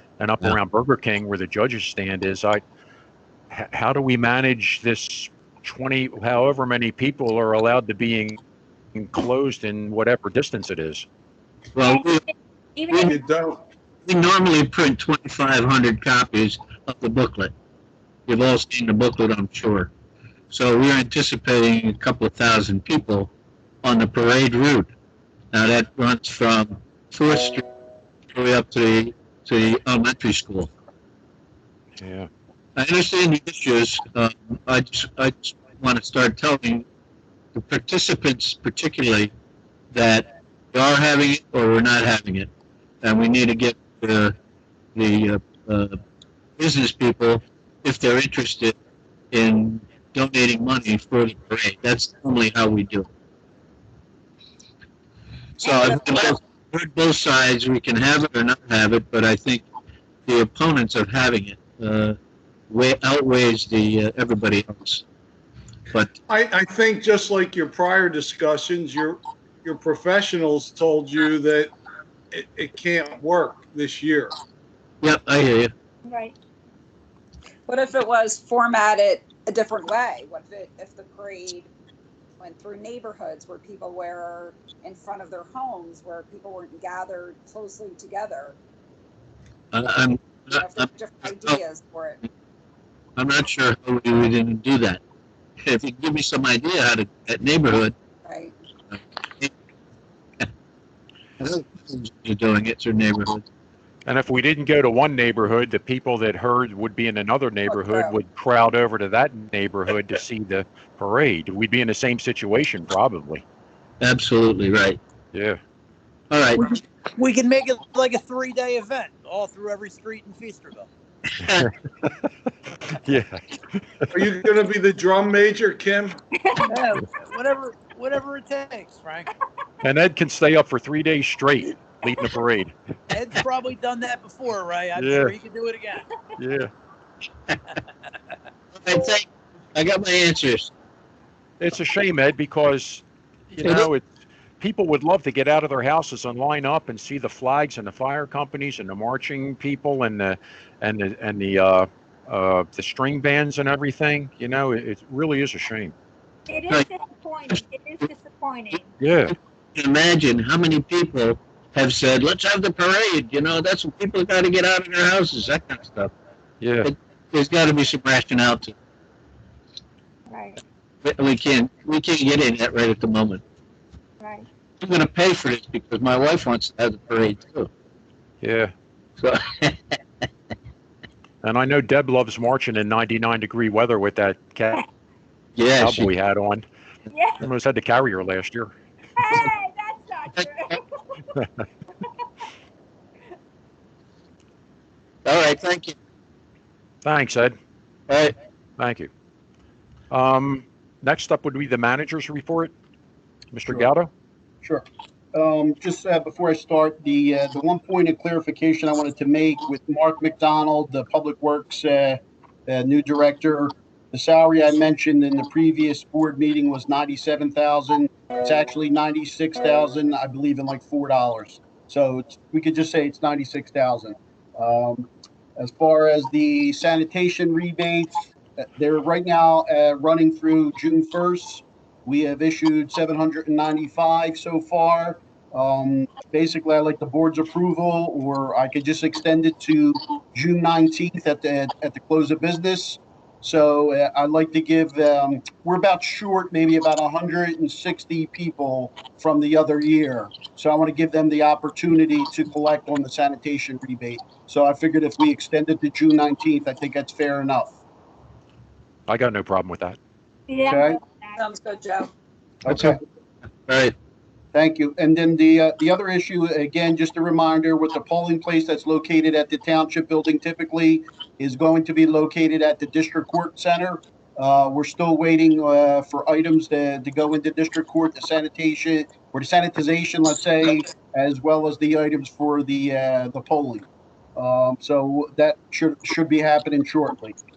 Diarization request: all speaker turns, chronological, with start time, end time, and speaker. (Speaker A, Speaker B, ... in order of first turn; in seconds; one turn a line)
Speaker A: 0.2-2.6
Speaker A: 3.5-8.4
Speaker A: 8.9-11.1
Speaker B: 11.8-12.2
Speaker C: 11.8-13.2
Speaker D: 13.1-13.6
Speaker B: 14.1-17.5
Speaker B: 18.3-19.9
Speaker B: 20.5-23.3
Speaker B: 23.8-24.9
Speaker B: 25.5-27.6
Speaker B: 28.3-30.7
Speaker A: 32.0-32.3
Speaker B: 32.8-36.9
Speaker B: 37.5-39.3
Speaker B: 39.9-42.5
Speaker B: 43.0-44.4
Speaker B: 45.0-46.0
Speaker B: 46.6-48.8
Speaker B: 49.3-53.1
Speaker B: 55.6-59.7
Speaker C: 55.6-56.1
Speaker B: 60.3-62.2
Speaker B: 62.7-65.0
Speaker D: 66.3-71.7
Speaker D: 72.3-74.3
Speaker B: 75.0-75.7
Speaker C: 76.1-76.3
Speaker E: 77.7-81.7
Speaker E: 82.4-88.6
Speaker B: 89.7-91.6
Speaker E: 90.5-92.2
Speaker B: 93.2-95.0
Speaker B: 95.6-97.9
Speaker E: 98.2-98.5
Speaker B: 98.9-99.5
Speaker B: 101.4-103.5
Speaker A: 104.1-113.4
Speaker E: 107.7-108.1
Speaker B: 114.0-115.0
Speaker A: 115.3-115.6
Speaker B: 116.3-116.8
Speaker F: 116.8-120.9
Speaker B: 121.4-121.7
Speaker A: 121.4-122.3
Speaker A: 122.9-124.1
Speaker D: 124.1-126.2
Speaker C: 126.4-126.8
Speaker F: 126.7-129.3
Speaker A: 129.8-132.7
Speaker F: 133.1-136.1
Speaker A: 135.0-135.3
Speaker A: 136.4-136.7
Speaker B: 138.8-140.7
Speaker A: 141.6-144.0
Speaker B: 143.6-143.9
Speaker A: 144.6-155.9
Speaker C: 156.5-158.9
Speaker A: 159.0-159.3
Speaker B: 159.8-166.1
Speaker A: 166.6-166.9
Speaker B: 166.8-168.7
Speaker C: 170.3-170.6
Speaker B: 171.0-173.4
Speaker C: 174.2-174.5
Speaker B: 174.8-177.7
Speaker A: 178.4-178.7
Speaker B: 179.2-180.0
Speaker A: 181.4-184.8
Speaker B: 185.6-186.1
Speaker A: 185.8-186.6
Speaker C: 187.1-187.4
Speaker A: 187.4-188.7
Speaker C: 189.2-191.3
Speaker B: 195.2-196.0
Speaker A: 197.0-197.6
Speaker B: 198.1-198.3
Speaker A: 198.8-199.1
Speaker A: 200.1-202.7
Speaker A: 203.5-204.1
Speaker G: 203.7-203.9
Speaker G: 204.6-257.8
Speaker A: 259.1-260.0
Speaker C: 260.5-261.4
Speaker G: 260.7-261.0
Speaker E: 261.4-262.1
Speaker G: 262.6-263.0
Speaker B: 262.7-262.9
Speaker B: 263.7-263.9
Speaker G: 264.5-287.4